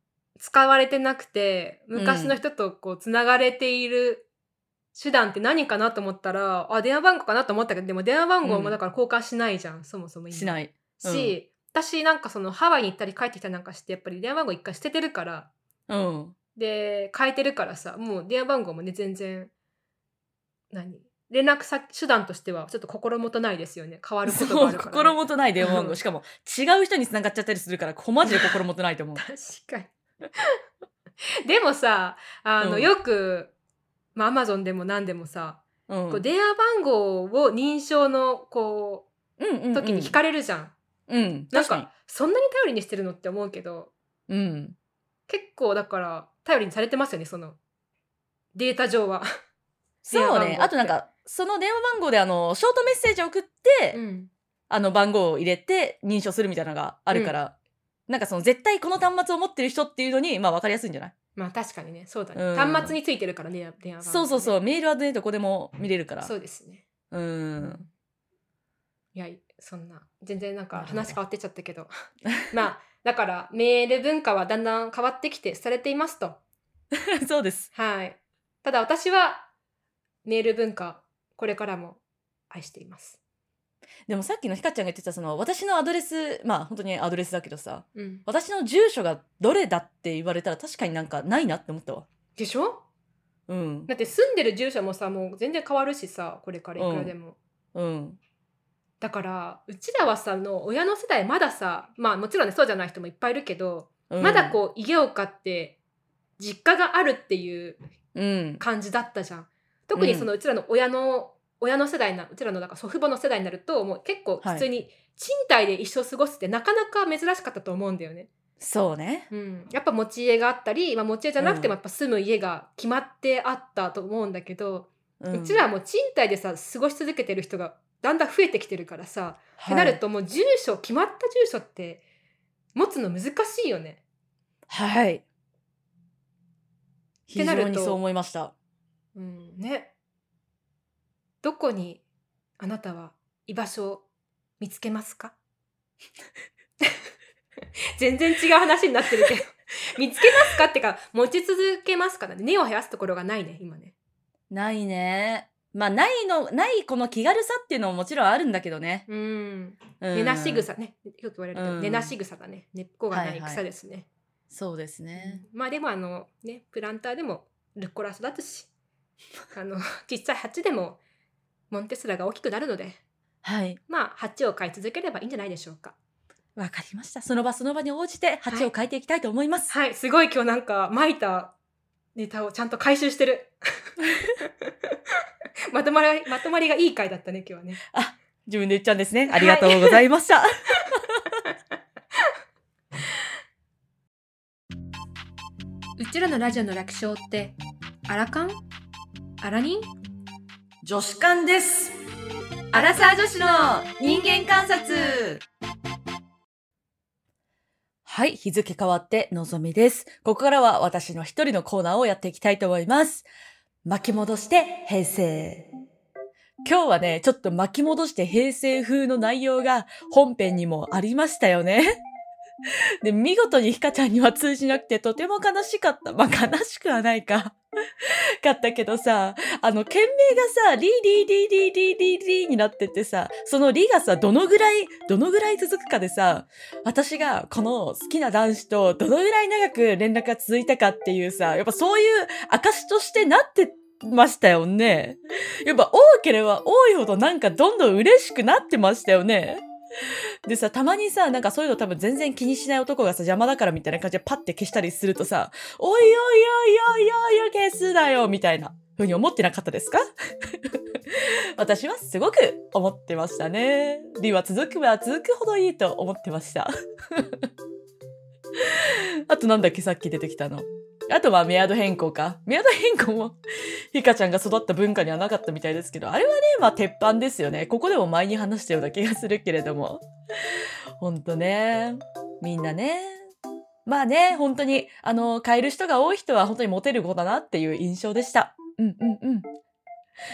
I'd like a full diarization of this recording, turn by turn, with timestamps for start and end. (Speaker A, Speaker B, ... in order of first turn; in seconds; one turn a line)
Speaker A: 0.4-4.3
Speaker B: 1.9-2.4
Speaker A: 4.9-15.5
Speaker B: 8.4-8.8
Speaker B: 10.3-11.3
Speaker B: 15.9-16.4
Speaker A: 16.6-19.5
Speaker A: 20.7-26.0
Speaker B: 24.3-29.2
Speaker A: 28.3-28.6
Speaker A: 29.2-30.4
Speaker A: 31.4-33.5
Speaker B: 32.6-32.9
Speaker A: 34.1-39.1
Speaker B: 35.9-36.3
Speaker B: 39.4-40.2
Speaker A: 39.7-40.8
Speaker B: 41.1-41.9
Speaker A: 41.5-43.9
Speaker B: 44.3-44.8
Speaker A: 45.3-47.6
Speaker A: 48.5-49.3
Speaker B: 50.0-54.0
Speaker A: 50.1-51.0
Speaker A: 53.9-54.3
Speaker B: 54.7-57.5
Speaker B: 58.1-61.1
Speaker A: 61.4-64.6
Speaker B: 62.4-63.0
Speaker B: 64.0-66.3
Speaker A: 66.2-66.9
Speaker B: 67.1-67.8
Speaker A: 67.6-67.9
Speaker A: 69.1-71.9
Speaker B: 70.8-71.2
Speaker A: 72.5-76.4
Speaker B: 77.1-77.7
Speaker A: 77.7-79.5
Speaker A: 80.2-83.2
Speaker B: 84.1-92.1
Speaker A: 87.9-88.2
Speaker A: 92.4-92.8
Speaker B: 93.5-93.9
Speaker A: 93.9-97.4
Speaker B: 96.8-97.1
Speaker B: 97.8-98.2
Speaker A: 99.0-105.8
Speaker B: 104.1-104.6
Speaker A: 106.4-107.8
Speaker B: 108.1-108.6
Speaker A: 108.6-118.3
Speaker B: 109.9-110.3
Speaker B: 114.4-114.7
Speaker B: 118.6-119.3
Speaker A: 119.3-132.0
Speaker B: 121.4-121.8
Speaker B: 125.2-125.6
Speaker B: 129.6-130.0
Speaker A: 132.8-134.0
Speaker B: 134.7-135.2
Speaker B: 137.3-138.5
Speaker A: 137.4-138.0
Speaker A: 139.1-139.9
Speaker A: 141.4-142.0
Speaker A: 142.6-144.1
Speaker A: 144.6-145.3
Speaker A: 148.0-153.9
Speaker B: 154.5-159.1
Speaker A: 159.1-164.1
Speaker B: 160.0-160.7
Speaker B: 161.6-162.1
Speaker B: 163.1-163.6
Speaker B: 164.5-165.4
Speaker A: 165.2-168.7
Speaker A: 169.5-171.0
Speaker A: 171.7-173.0
Speaker B: 173.4-173.8
Speaker A: 173.9-176.0
Speaker B: 176.6-179.7
Speaker A: 179.7-181.6
Speaker A: 182.1-183.6
Speaker A: 184.4-184.9
Speaker A: 185.7-187.8
Speaker B: 187.9-191.1
Speaker A: 189.3-190.0
Speaker A: 196.0-197.6
Speaker A: 198.1-198.6
Speaker A: 199.4-199.9
Speaker B: 200.8-201.9
Speaker B: 202.7-205.4
Speaker B: 208.1-213.3
Speaker B: 213.8-215.7
Speaker B: 216.6-222.0
Speaker B: 223.0-227.6
Speaker B: 228.4-249.6
Speaker B: 250.4-260.0
Speaker B: 261.1-267.5
Speaker B: 268.6-273.4
Speaker B: 273.9-280.0
Speaker B: 281.0-283.3
Speaker B: 283.9-289.5